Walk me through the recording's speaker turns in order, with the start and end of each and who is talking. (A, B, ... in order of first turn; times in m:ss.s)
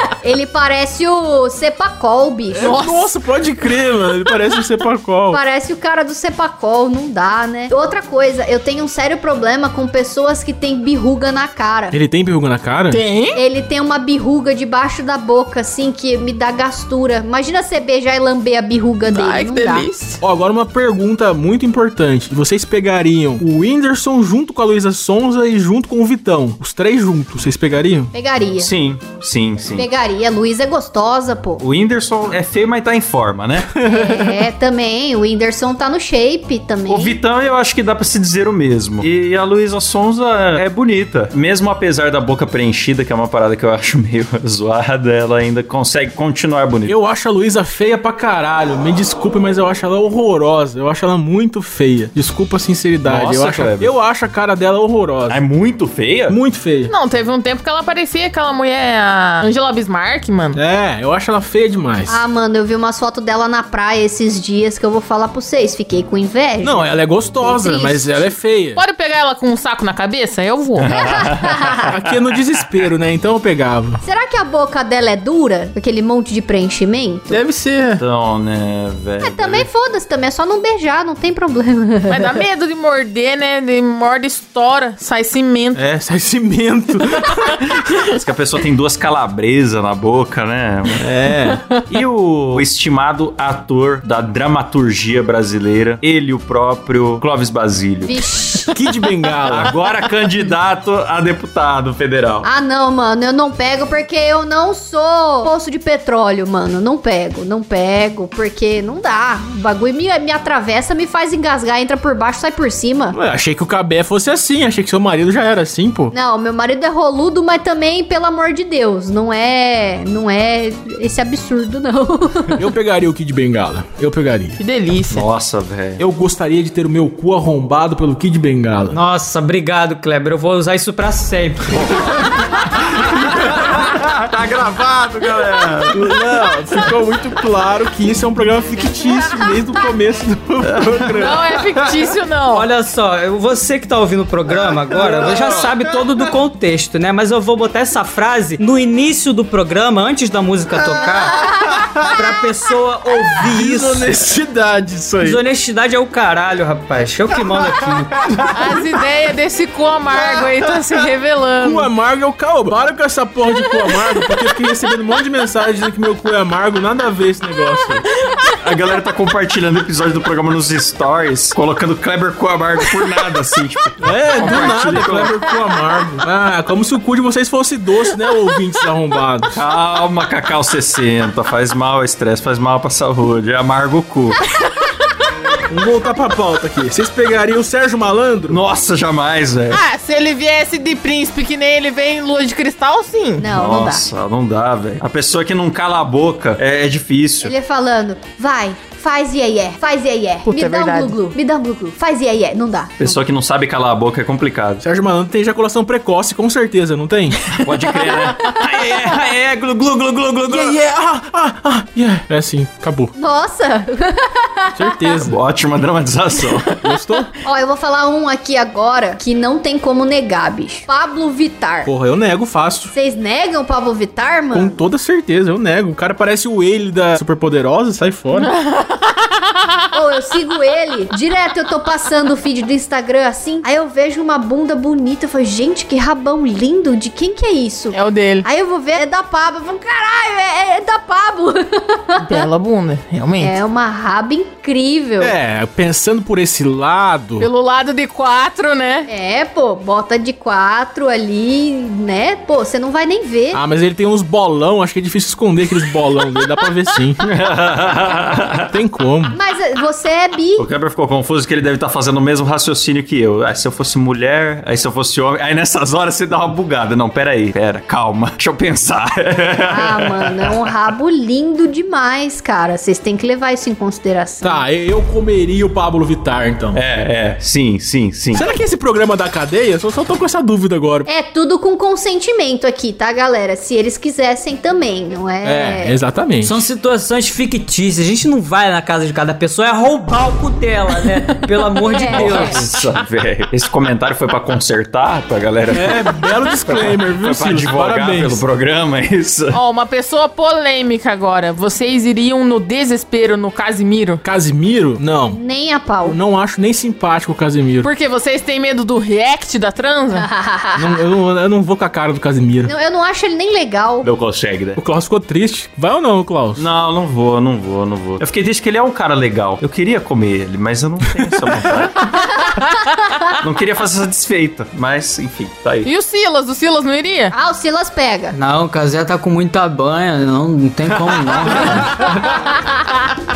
0:00.2-0:02.8 A
0:02.6-0:05.4 B
0:02.6-0:03.1 C
0:05.3-0:12.0 A
0:11.9-0:13.0 B
0:12.9-0:13.4 C
0:13.3-0:19.9 A
0:19.0-0:20.2 C
0:20.2-0:28.1 B
0:28.1-0:28.7 A
0:28.6-0:29.9 D
0:29.8-0:31.6 A
0:31.6-0:33.7 D
0:33.8-0:34.4 B
0:33.8-0:37.2 A
0:36.9-0:47.0 D
0:46.9-0:55.4 B
0:53.0-0:53.9 D
0:55.3-0:56.4 D
0:56.3-0:56.9 B
0:56.9-1:00.6 C
1:00.6-1:02.2 B
1:02.1-1:06.9 A
1:06.6-1:08.8 B
1:07.4-1:08.3 A
1:08.8-1:10.9 C
1:10.8-1:12.6 D
1:10.9-1:11.9 A
1:11.8-1:14.0 B
1:14.0-1:17.4 A
1:17.3-1:18.0 B
1:18.0-1:19.7 D
1:19.2-1:22.4 A
1:22.1-1:25.8 C
1:25.8-1:28.1 B
1:28.1-1:31.1 D
1:31.0-1:31.6 B
1:31.9-1:38.2 D
1:38.1-1:38.7 A
1:38.7-1:39.7 B
1:39.5-1:42.5 D
1:42.4-1:53.2 A
1:53.1-1:56.1 B
1:56.1-2:02.6 A
2:02.6-2:04.6 B
2:04.6-2:05.2 C
2:05.1-2:06.0 D
2:06.0-2:09.0 B
2:08.9-2:11.9 E
2:11.9-2:16.1 D
2:15.9-2:21.4 B
2:20.8-2:21.6 D
2:21.2-2:22.7 C
2:22.5-2:31.4 E
2:32.0-2:34.2 E
2:33.5-2:35.4 B
2:35.2-2:38.2 E
2:38.5-2:41.9 C
2:41.6-2:48.0 B
2:48.6-2:55.3 D
2:54.0-2:59.6 B
2:59.5-3:04.4 D
3:05.7-3:08.6 B
3:08.5-3:09.8 D
3:09.7-3:13.5 C
3:13.4-3:14.0 A
3:13.5-3:17.6 D
3:17.4-3:23.2 A
3:20.4-3:21.2 C
3:23.0-3:24.8 D
3:24.8-3:27.4 B
3:27.6-3:30.8 D
3:30.5-3:33.1 B
3:33.2-3:35.0 A
3:34.8-3:35.4 B
3:35.2-3:36.8 D
3:36.8-3:37.3 B
3:37.4-3:41.9 A
3:41.8-3:42.9 B
3:42.9-3:44.8 A
3:44.5-3:48.5 B
3:48.4-3:49.6 C
3:49.9-4:02.5 A
3:57.9-3:58.5 C
4:02.2-4:03.6 C
4:03.4-4:05.3 A
4:05.2-4:07.5 B
4:07.4-4:09.1 C
4:09.1-4:13.6 A
4:13.5-4:17.2 B
4:17.2-4:18.7 D
4:18.7-4:19.4 B
4:19.3-4:20.7 A
4:20.6-4:30.6 D
4:29.7-4:34.6 A
4:34.4-4:36.8 B
4:36.7-4:38.5 D
4:38.3-4:41.1 B
4:41.1-4:46.0 A
4:45.4-4:46.6 B
4:46.4-4:52.7 E
4:51.8-4:52.6 A
4:52.1-4:59.6 D
4:55.7-4:58.4 B
4:59.5-5:04.2 C
5:04.2-5:05.4 B
5:05.3-5:06.2 A
5:06.0-5:07.9 B
5:07.8-5:10.3 C
5:10.2-5:10.9 A
5:10.8-5:12.7 B
5:12.7-5:14.1 A
5:14.0-5:14.8 D
5:14.8-5:16.6 B
5:16.6-5:22.2 D
5:23.4-5:25.9 D
5:25.8-5:27.4 C
5:27.3-5:28.4 A
5:28.3-5:32.0 E
5:31.4-5:31.8 D